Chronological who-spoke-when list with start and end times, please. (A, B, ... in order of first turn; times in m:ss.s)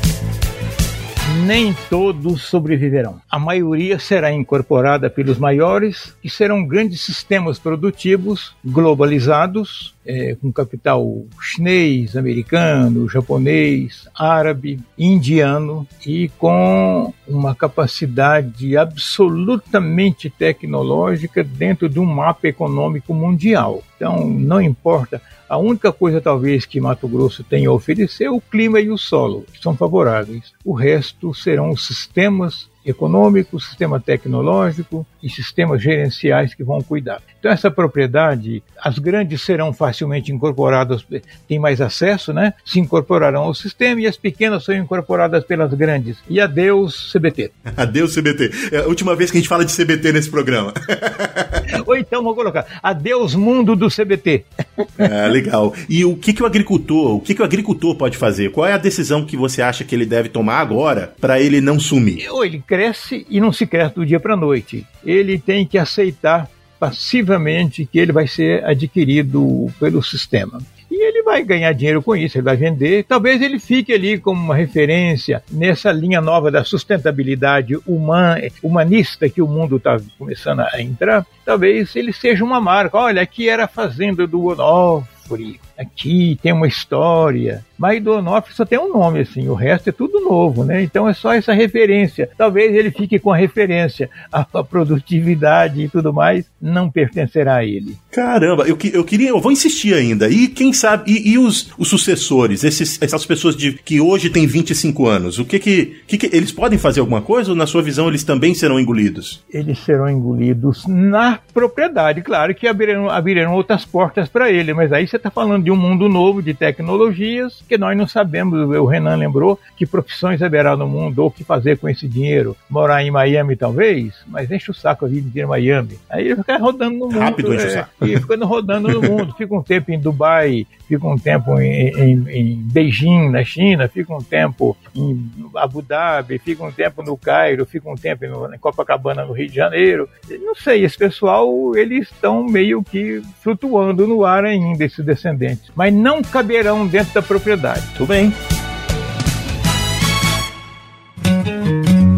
0:01.2-0:47.5 A
0:47.7-0:51.6 B
0:51.7-0:54.8 A
0:55.0-1:02.2 B
1:02.2-1:38.0 A
1:38.1-1:49.4 B
1:49.5-2:27.9 A
2:07.1-2:08.2 B
2:28.0-2:28.4 B